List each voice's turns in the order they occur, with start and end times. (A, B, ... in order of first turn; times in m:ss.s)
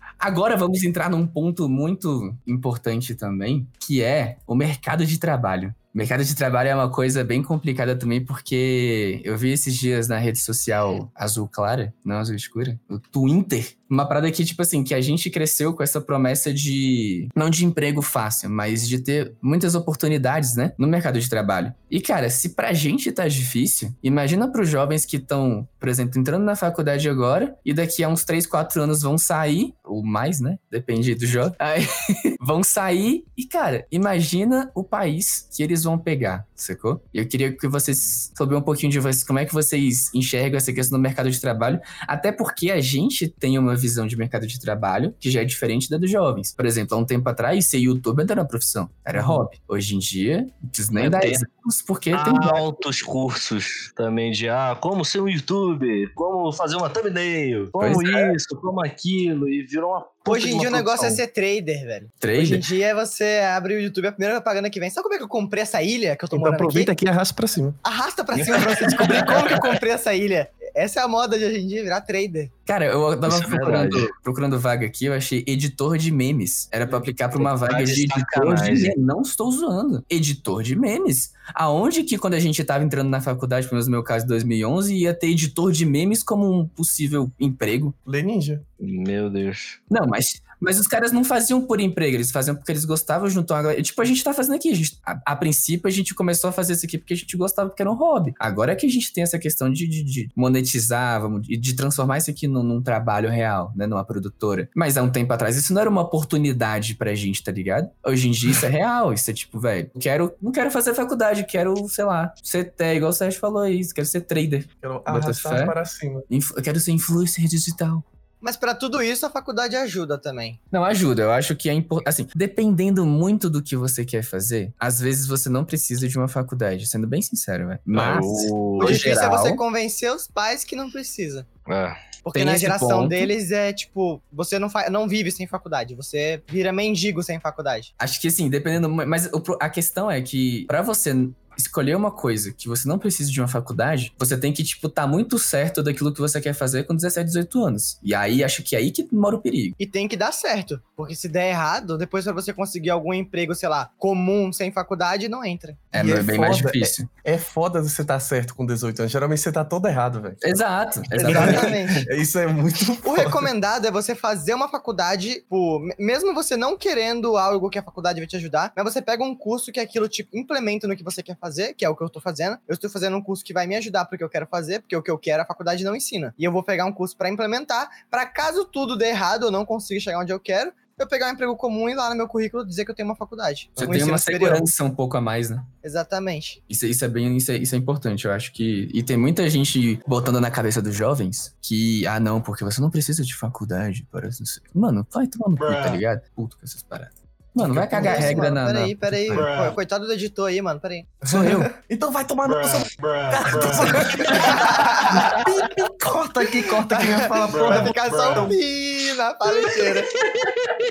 0:00.2-0:52.6 A
0:51.0-0:51.4 B
0:52.1-1:01.2 B
0:57.8-0:58.3 A
1:00.3-1:06.9 C
1:02.2-1:02.6 A
1:06.3-1:07.8 D
1:07.8-1:12.5 C
1:09.0-1:09.4 A
1:12.7-1:28.0 A
1:13.3-1:14.1 B
1:16.9-1:19.0 B
1:28.1-1:28.6 D
1:28.8-1:29.8 B
1:29.9-1:55.8 A
1:54.8-1:56.3 D
1:56.3-1:58.0 A
1:58.4-2:00.6 C
2:00.7-2:09.6 A
2:07.9-2:09.0 B
2:08.8-2:11.5 C
2:11.7-2:12.0 B
2:12.2-2:17.9 C
2:12.3-2:13.3 A
2:18.0-2:29.8 A
2:29.8-2:35.8 C
2:35.9-2:37.1 A
2:35.9-2:40.4 D
2:40.4-2:41.8 A
2:41.2-2:43.5 D
2:41.2-2:42.1 C
2:43.0-3:04.7 C
3:03.8-3:05.7 A
3:05.8-3:06.6 C
3:06.7-3:19.5 A
3:17.6-3:18.6 D
3:18.0-3:21.1 C
3:21.2-3:28.5 D
3:21.2-3:21.7 A
3:24.5-3:25.6 C
3:26.9-3:30.1 C